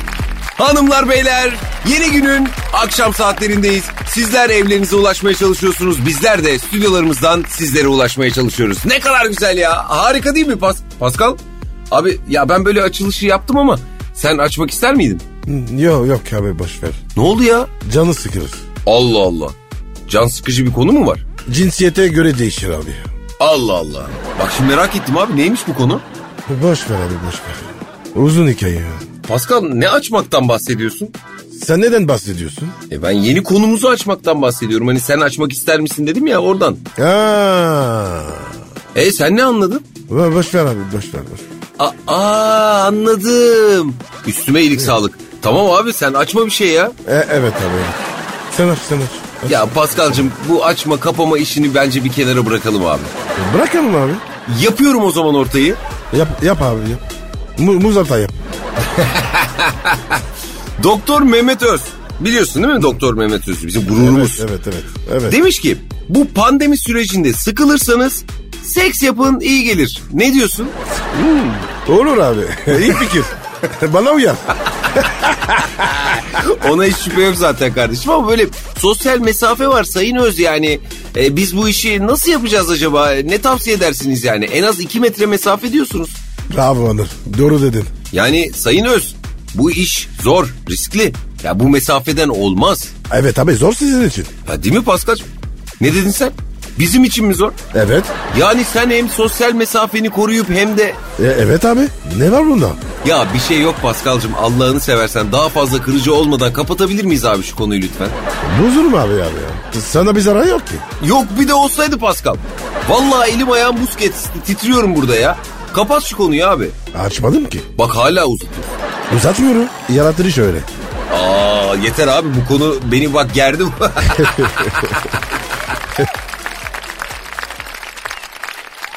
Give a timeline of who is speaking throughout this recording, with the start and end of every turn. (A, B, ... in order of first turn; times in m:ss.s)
0:00.6-0:11.4 A
0:11.9-0:15.2 A
0:15.4-0:17.0 B
0:17.2-0:17.7 A
0:17.8-0:18.6 B
0:18.8-0:19.5 A
0:20.1-0:21.2 A
0:21.5-0:23.1 B
0:23.4-0:26.0 A
0:26.5-0:29.0 B
0:29.2-0:31.1 A
0:31.5-0:32.8 B
0:32.9-0:36.8 A
0:37.0-0:38.5 B
0:38.9-0:39.8 A
0:40.1-0:41.4 B
0:41.8-0:46.9 A
0:47.0-0:48.0 B
0:48.5-0:50.3 B
0:49.5-0:53.1 A
0:53.3-0:54.2 B
0:54.4-0:55.8 A
0:56.1-0:57.0 B
0:57.6-0:58.4 B
0:58.9-1:00.2 A
1:00.8-1:04.4 A
1:03.9-1:05.4 B
1:05.3-1:11.6 A
1:11.2-1:15.9 B
1:15.6-1:26.2 A
1:26.5-1:27.9 B
1:28.1-1:32.9 A
1:33.1-1:34.3 B
1:34.4-1:35.3 A
1:35.8-1:37.6 A
1:37.7-1:38.1 B
1:38.3-1:41.0 A
1:41.2-1:42.8 B
1:43.0-1:48.2 A
1:48.4-1:50.8 B
1:51.0-1:56.8 A
1:56.9-1:57.7 B
1:57.8-1:58.8 A
1:59.1-2:00.7 B
2:01.1-2:05.3 A
2:04.2-2:04.7 B